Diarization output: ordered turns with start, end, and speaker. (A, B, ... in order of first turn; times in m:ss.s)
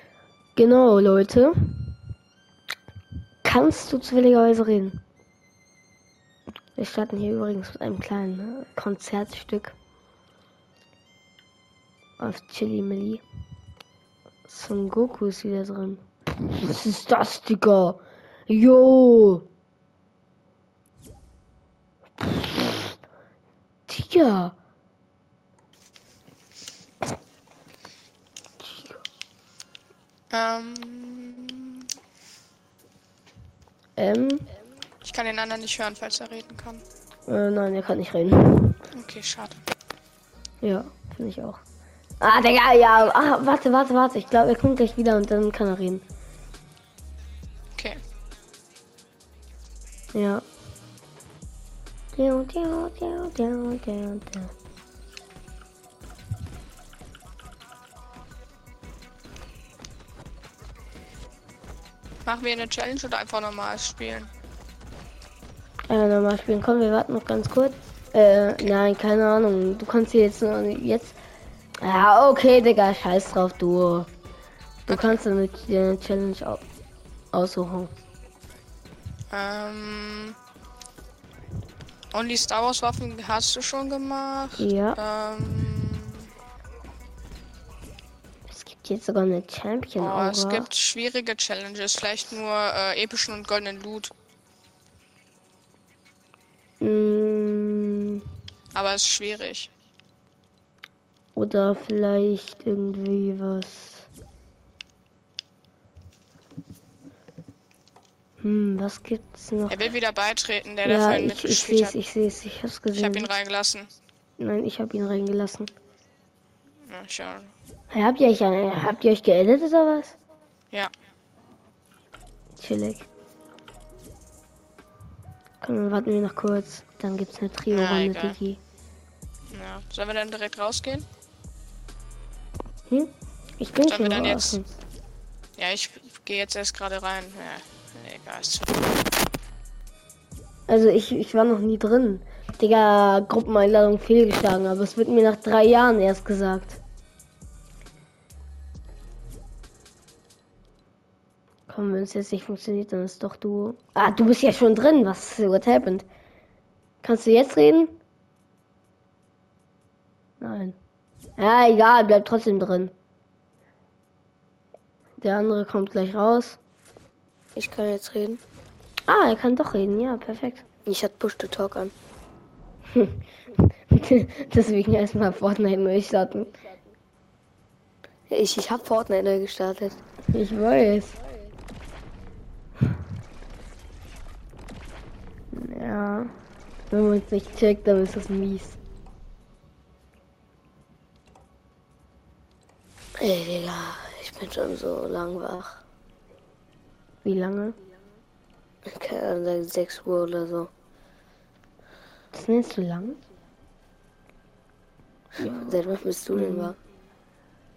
0:00.6-0:01.7 A
0:03.4-0:05.0 A
0:06.8-0:09.8 A
0:12.2-0:13.2 A
0:14.5-0:19.4 A
0:22.2-0:23.0 A
0:23.9-0:24.5 A
0:30.3-0:31.8 B
0:34.0-0:34.4 A
0:35.0-0:36.8 B
0:37.3-0:38.8 A
0:38.9-0:39.6 B
0:40.6-0:41.6 A
0:42.2-0:46.0 A
0:50.1-0:50.4 A
0:52.1-0:54.5 A
1:02.2-1:04.3 B
1:05.9-1:11.2 A
1:11.8-1:14.1 A
1:14.9-1:16.6 A
1:14.9-1:15.2 B
1:17.3-1:17.9 A
1:19.3-1:20.4 B
1:22.1-1:26.3 B
1:24.6-1:25.0 A
1:28.5-1:30.7 A
1:30.0-1:34.1 B
1:36.8-1:38.2 A
1:38.7-1:39.7 B
1:41.4-1:44.1 A
1:48.4-1:49.9 A
1:49.7-1:51.9 B
1:50.8-1:53.3 A
1:53.0-1:53.9 B
1:54.4-1:55.7 A
1:56.8-1:57.5 B
1:57.9-2:00.2 A
2:02.6-2:03.1 A
2:05.6-2:08.6 A
2:07.7-2:08.4 B
2:09.5-2:11.1 B
2:12.9-2:14.6 A
2:13.8-2:14.6 B
2:15.6-2:18.9 B
2:20.7-2:26.8 A
2:31.7-2:36.0 A
2:37.0-2:37.9 A
2:40.4-2:40.8 A
2:41.4-2:42.9 A
2:45.2-2:46.6 A
2:47.5-2:48.4 C
2:49.1-2:50.6 A
2:50.8-2:51.9 C
2:52.9-2:53.2 A
2:53.9-2:56.5 A
2:58.3-3:00.0 C
3:00.3-3:01.2 A
3:05.5-3:06.3 A
3:06.9-3:08.8 A
3:13.2-3:15.8 C
3:17.2-3:17.8 A
3:18.8-3:20.7 C
3:22.3-3:23.2 A
3:25.4-3:25.8 A
3:25.4-3:26.8 C
3:26.3-3:26.7 A